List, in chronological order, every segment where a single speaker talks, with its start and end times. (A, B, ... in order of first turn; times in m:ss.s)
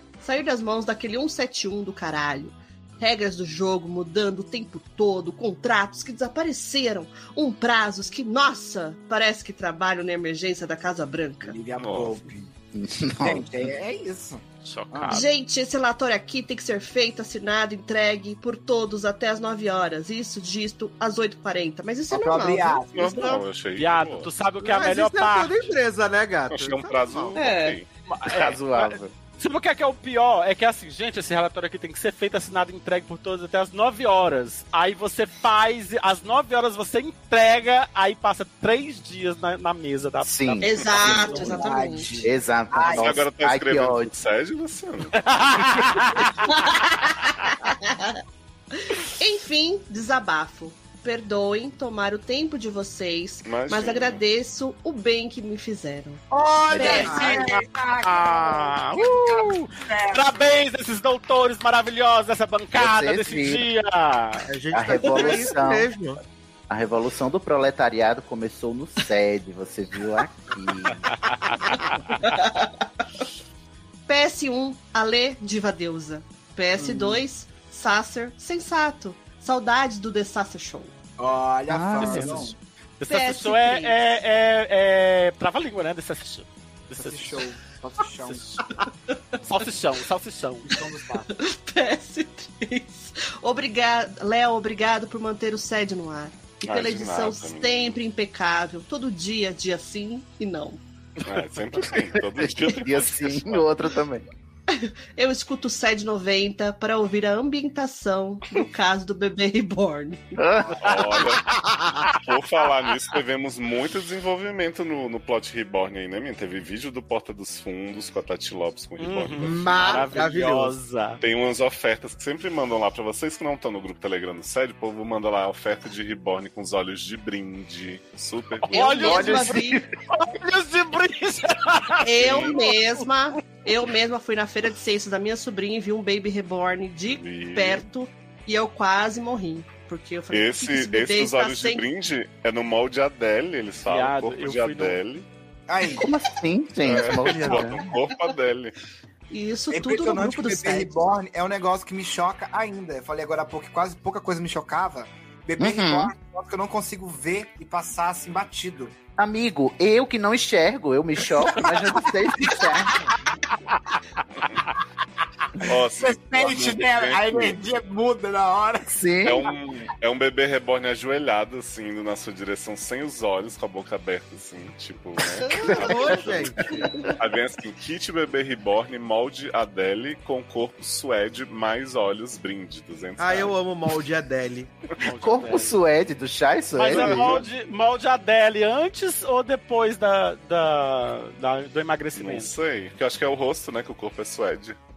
0:00.2-0:11.6 A
0:11.4-0:12.5 B
0:11.8-0:12.2 C
0:12.7-0:13.7 D
0:13.2-0:15.2 B
0:14.6-0:15.3 E
0:15.1-0:23.4 A
0:22.1-0:23.4 B
0:23.0-0:24.3 C
0:23.8-0:25.7 E
0:24.6-0:27.4 F
0:26.5-0:27.9 C
0:27.4-0:27.8 A
0:28.1-0:41.5 E
0:28.3-0:29.1 D
0:40.2-0:41.4 D
0:40.6-0:42.2 A
0:41.0-0:43.2 B
0:42.2-0:44.1 D
0:42.9-0:45.2 C
0:45.2-0:46.5 E
0:46.5-0:48.2 A
0:48.7-0:56.2 A
0:53.5-0:54.2 C
0:56.3-1:00.4 B
0:56.7-0:57.3 D
0:56.8-0:57.4 A
0:56.8-1:04.5 E
1:02.8-1:03.7 D
1:04.5-1:06.2 F
1:04.7-1:05.9 D
1:06.7-1:11.1 D
1:11.2-1:12.2 E
1:12.2-1:12.8 A
1:14.1-1:20.9 A
1:21.2-1:22.6 B
1:21.7-1:22.5 D
1:22.0-1:22.5 E
1:23.0-1:27.4 E
1:23.1-1:24.0 A
1:27.0-1:28.6 B
1:28.3-1:28.6 E
1:29.4-1:30.7 E
1:30.7-1:31.3 B
1:31.2-1:40.8 A
1:36.6-1:38.0 C
1:41.2-1:43.7 C
1:42.1-1:44.3 D
1:44.7-1:50.4 A
1:50.4-1:50.9 D
1:50.8-1:51.5 C
1:52.2-2:00.1 C
1:59.0-2:01.2 E
1:59.4-2:00.8 F
2:01.2-2:09.2 C
2:08.7-2:13.0 E
2:08.7-2:09.8 A
2:09.0-2:09.9 D
2:12.0-2:21.8 A
2:12.2-2:12.6 C
2:17.1-2:17.9 C
2:20.3-2:25.3 C
2:23.9-2:25.0 E
2:25.7-2:26.1 B
2:26.0-2:27.9 D
2:26.8-2:28.8 C
2:29.3-2:31.1 A
2:29.7-2:38.9 B
2:35.6-2:36.1 D
2:39.2-2:43.1 D
2:41.5-2:43.1 B
2:45.6-2:49.0 B
2:45.6-2:47.6 C
2:48.9-2:49.5 D
2:49.2-3:03.6 C
2:55.3-2:57.2 A
2:55.8-2:56.8 F
3:03.2-3:04.7 F
3:05.0-3:05.8 E
3:05.0-3:07.4 D
3:06.8-3:12.5 E
3:06.9-3:07.5 C
3:12.2-3:14.8 C